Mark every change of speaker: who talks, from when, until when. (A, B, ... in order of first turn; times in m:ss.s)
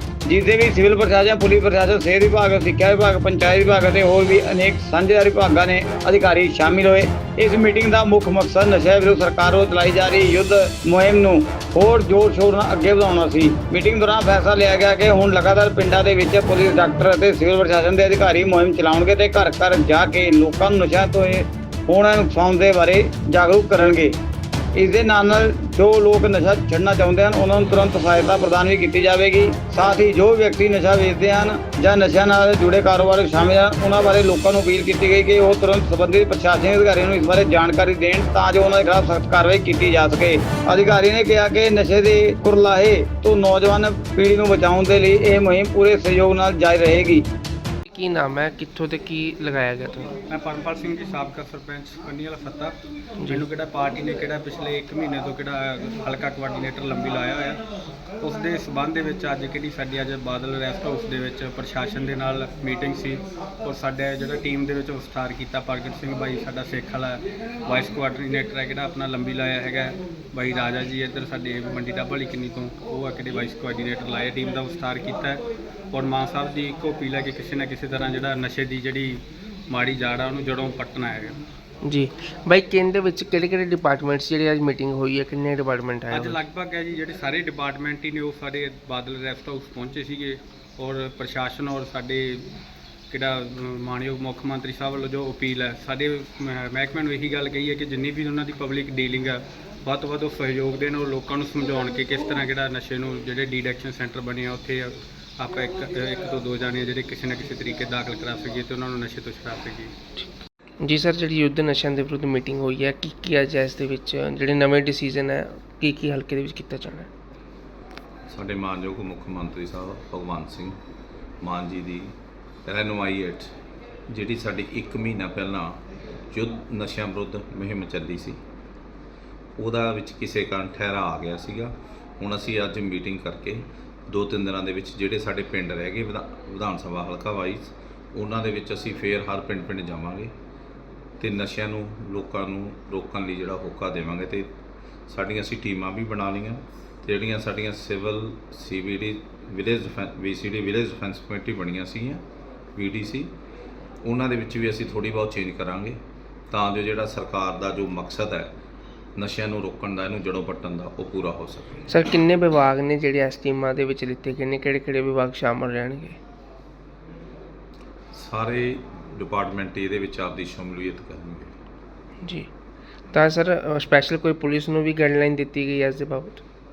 0:00.3-0:24.2 A
0:24.8-0:47.2 A
0:47.9-0:50.1 B
0:50.3-0:52.7 C
0:53.2-0:53.5 B
0:53.3-0:57.6 C
0:58.2-1:15.4 C
1:15.9-1:21.4 C
1:21.8-1:26.4 B
1:26.1-1:32.5 C
1:33.1-1:49.9 C
1:50.8-1:57.1 B
1:58.3-2:00.7 D
2:01.4-2:02.1 D
2:02.7-2:03.5 D
2:04.1-2:05.8 D
2:06.3-2:08.4 D
2:09.6-2:20.3 D
2:21.2-2:24.5 D
2:25.1-2:32.2 D
2:32.8-2:33.3 D
2:34.0-2:36.0 D
2:36.5-2:38.5 D
2:39.2-2:41.8 D
2:41.9-2:46.2 B
2:48.1-2:51.5 D
2:52.2-2:52.5 B
2:53.1-2:56.4 B